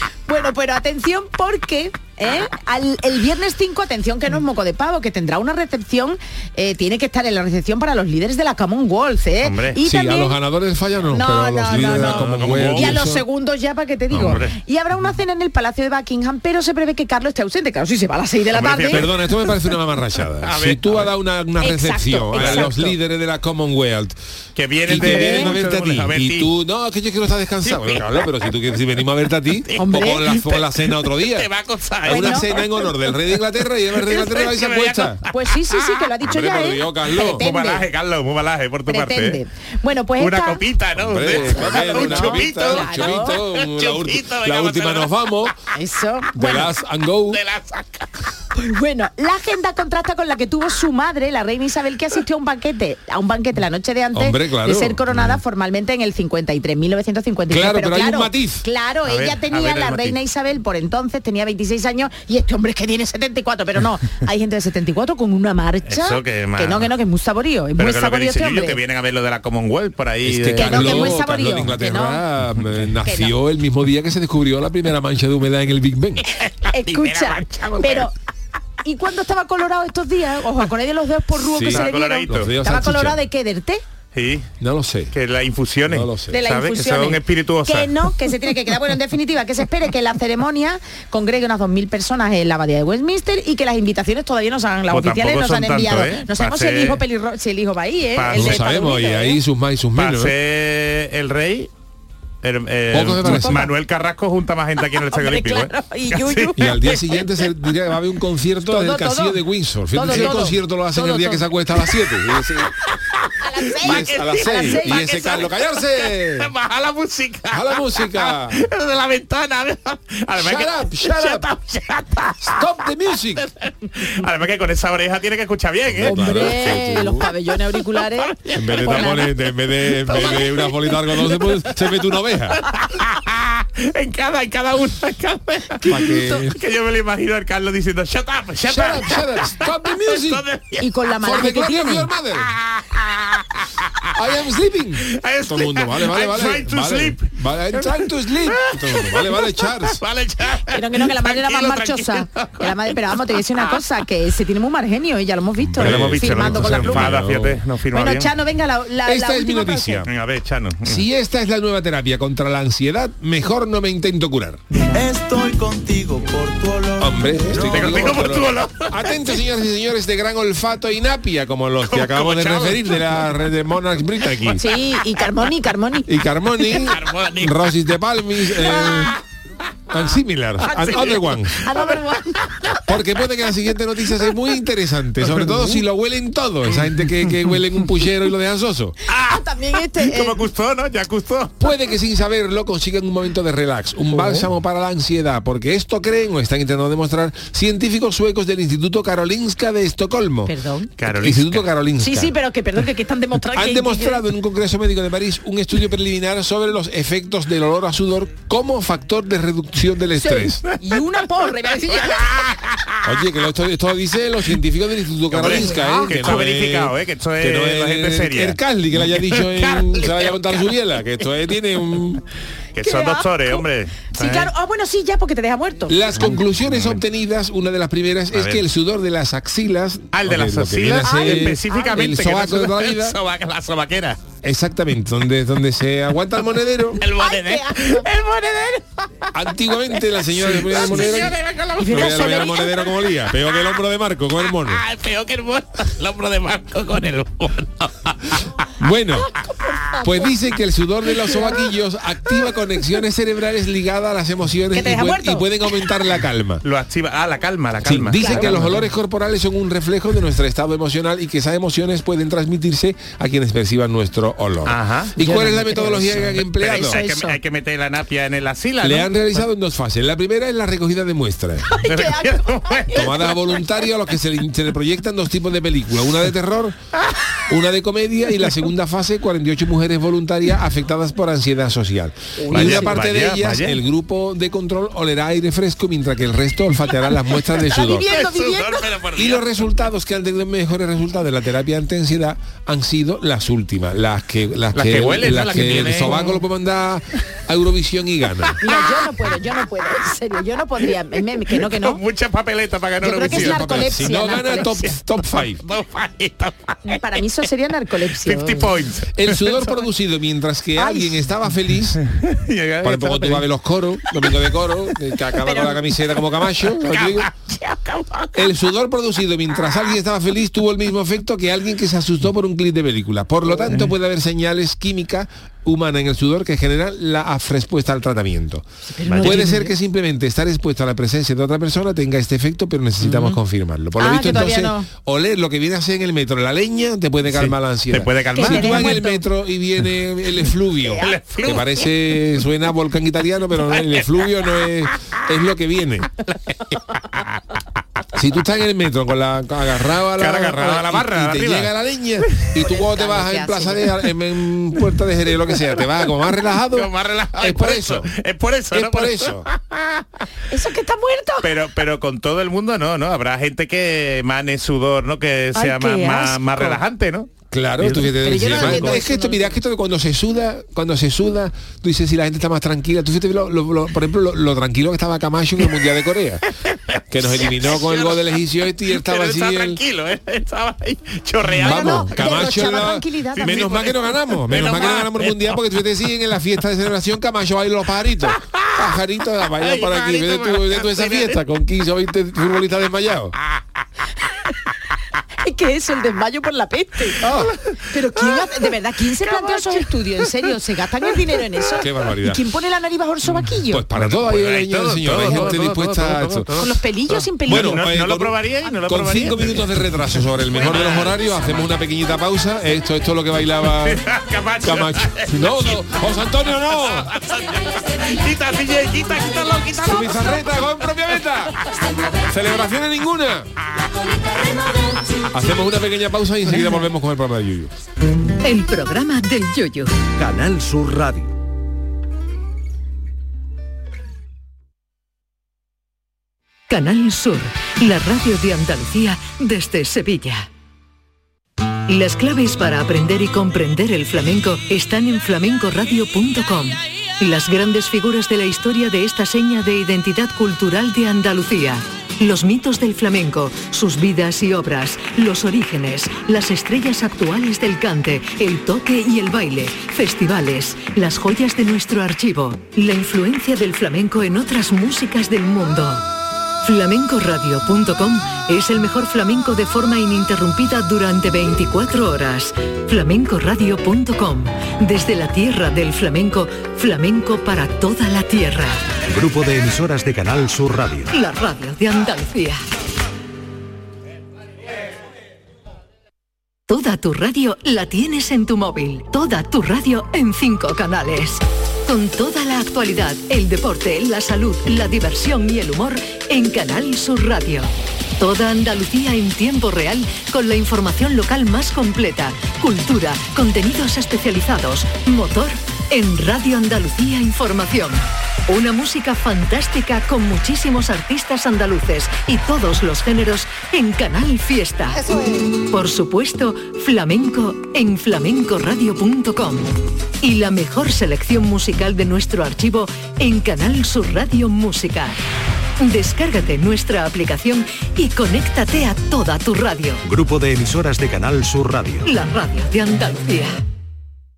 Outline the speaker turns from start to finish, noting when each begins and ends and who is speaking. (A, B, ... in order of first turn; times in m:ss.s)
0:00.3-0:10.4 A
0:09.4-0:09.8 B
0:09.8-0:13.2 C
0:11.1-0:19.1 A
0:11.7-0:13.2 B
0:14.1-0:14.4 C
0:14.1-0:14.6 B
0:18.5-0:19.8 B
0:18.9-0:24.2 C
0:20.4-0:21.1 B
0:21.6-0:23.0 A
0:22.3-0:22.7 B
0:24.6-0:26.5 B
0:24.8-0:31.5 C
0:24.9-0:25.6 A
0:27.6-0:28.8 B
0:29.5-0:36.1 B
0:29.8-0:30.3 A
0:32.0-0:35.2 C
0:32.0-0:32.5 A
0:35.3-0:37.9 A
0:36.2-0:37.4 C
0:37.3-0:39.4 B
0:38.9-0:40.6 A
0:40.2-0:45.5 B
0:41.0-0:45.5 C
0:41.3-0:43.4 A
0:45.7-0:46.7 A
0:46.3-0:47.4 C
0:47.3-0:48.2 B
0:48.5-1:08.8 A
0:54.1-0:55.4 C
0:57.5-0:58.6 C
0:59.0-1:00.2 B
1:05.9-1:06.9 B
1:07.8-1:11.2 B
1:10.2-1:16.2 C
1:10.5-1:12.2 A
1:13.0-1:13.4 A
1:16.4-1:18.1 B
1:16.6-1:18.1 A
1:18.8-1:23.8 A
1:21.4-1:23.2 C
1:21.7-1:22.5 B
1:24.2-1:24.5 B
1:24.6-1:25.1 C
1:25.1-1:27.9 B
1:25.9-1:26.4 C
1:26.3-1:39.4 A
1:34.9-1:37.0 B
1:38.2-1:38.7 B
1:38.3-1:40.3 C
1:39.9-1:41.7 B
1:42.4-1:47.5 B
1:42.9-1:43.7 C
1:43.2-1:43.7 A
1:45.0-1:46.8 A
1:46.6-1:52.7 C
1:48.7-1:51.5 A
1:50.0-1:50.6 B
1:52.8-2:06.8 B
1:53.4-1:55.5 A
1:53.8-1:56.5 C
1:57.5-1:58.6 C
2:00.4-2:01.4 C
2:02.4-2:03.4 C
2:05.9-2:07.3 C
2:06.0-2:09.3 A
2:07.9-2:20.9 B
2:08.6-2:12.7 C
2:15.8-2:16.4 A
2:15.8-2:16.6 C
2:18.7-2:20.4 C
2:20.8-2:22.1 A
2:21.2-2:22.5 C
2:22.5-2:24.3 B
2:24.2-2:30.0 C
2:25.0-2:33.8 B
2:30.6-2:37.2 A
2:35.6-2:37.6 C
2:35.8-2:38.3 B
2:37.9-2:40.1 A
2:39.0-2:40.1 C
2:40.0-2:41.1 B
2:40.8-2:44.6 C
2:44.7-2:45.0 A
2:45.0-2:47.0 D
2:47.0-2:54.7 C
2:47.5-2:49.4 B
2:51.9-2:53.5 B
2:54.2-2:54.8 B
2:54.5-2:56.2 A
2:56.1-2:59.2 C
2:56.7-2:57.7 B
2:58.5-2:59.2 B
2:59.9-3:01.6 C
3:00.6-3:02.5 A
3:00.7-3:02.8 B
3:02.9-3:09.0 C
3:05.2-3:05.8 B
3:06.7-3:08.0 B
3:09.1-3:11.7 B
3:09.1-3:10.4 A
3:11.6-3:22.4 C
3:14.1-3:14.4 A
3:20.5-3:20.9 A
3:21.0-3:21.7 B
3:22.0-3:24.2 A
3:23.5-3:30.6 C
3:30.1-3:32.4 A
3:30.7-3:31.0 B
3:31.9-3:33.1 B
3:33.0-3:42.2 C
3:35.3-3:40.7 B
3:35.4-3:36.4 A
3:42.8-3:44.5 B
3:42.8-3:46.0 A
3:45.9-3:53.2 C
3:46.2-3:47.0 B
3:48.3-3:48.6 B
3:50.1-3:54.2 B
3:51.0-3:52.1 A
3:54.4-3:57.0 C
3:57.0-3:58.8 B
3:57.0-3:58.1 A
3:59.3-4:04.8 C
4:00.0-4:03.8 B
4:00.7-4:02.8 A
4:04.4-4:08.6 B
4:08.8-4:09.3 C
4:09.2-4:10.4 A
4:10.0-4:16.6 C
4:11.2-4:11.7 A
4:14.7-4:15.5 A
4:16.6-4:18.9 B
4:17.8-4:27.0 C
4:18.2-4:18.9 A
4:24.6-4:25.2 B
4:25.2-4:27.4 A
4:26.0-4:29.5 B
4:28.8-4:31.8 C
4:31.7-4:33.4 A
4:31.8-4:33.4 B
4:32.9-4:36.8 C
4:37.5-4:48.1 C
4:42.4-4:43.1 A
4:42.5-4:43.8 B
4:47.6-4:48.9 A
4:48.1-4:49.5 B
4:49.2-4:58.6 C
4:54.7-4:56.4 B
4:56.0-4:56.4 A
4:58.5-4:59.3 B
4:58.6-5:02.0 A
5:01.5-5:07.2 B
5:03.0-5:05.0 A
5:03.2-5:05.6 C
5:06.9-5:08.7 A
5:08.1-5:09.9 B
5:09.1-5:12.0 C
5:10.8-5:11.3 A
5:12.0-5:18.7 B
5:12.8-5:17.3 C
5:15.4-5:15.9 A
5:18.4-5:46.1 C
5:28.9-5:29.8 A
5:29.1-5:29.4 B
5:33.0-5:33.4 A
5:34.0-5:34.9 A
5:37.3-5:39.0 B
5:38.3-5:39.2 A
5:40.8-5:41.2 A
5:41.0-5:41.9 B
5:43.7-5:44.3 B
5:46.2-5:47.4 B
5:48.2-5:58.1 C
5:50.1-5:52.5 B
5:52.6-5:54.0 A
5:56.4-6:00.0 B
5:58.7-5:59.4 C
6:00.5-6:01.5 A
6:01.4-6:07.3 B
6:05.6-6:06.8 A
6:07.5-6:16.4 C
6:07.8-6:09.6 A
6:07.8-6:09.0 B
6:16.7-6:22.6 B
6:17.1-6:19.8 C
6:21.4-6:33.4 C
6:21.6-6:23.8 A
6:23.4-6:25.7 B
6:28.5-6:29.0 B
6:29.5-6:31.4 B
6:35.4-6:43.8 A
6:37.2-6:37.5 C
6:37.2-6:37.8 B
6:39.2-6:39.9 B
6:41.8-6:42.4 C
6:43.7-6:46.6 C
6:43.9-6:51.8 B
6:45.2-6:45.5 A
6:46.6-6:47.9 A
6:47.4-6:54.0 C
6:53.6-6:55.8 B
6:54.6-6:57.1 C
6:56.5-7:00.6 B
6:59.8-7:01.6 C
7:02.3-7:03.5 C
7:05.3-7:07.7 C
7:08.4-7:10.0 E
7:10.2-7:11.3 F
7:16.7-7:20.5 E
7:21.9-7:46.1 E
7:46.6-7:58.9 E
7:59.0-8:01.1 F
8:01.1-8:02.6 E
8:06.7-8:35.0 E
8:35.6-8:39.7 E
8:40.2-8:45.2 E
8:45.8-8:50.0 E
8:50.0-8:52.1 F
8:52.0-8:53.6 E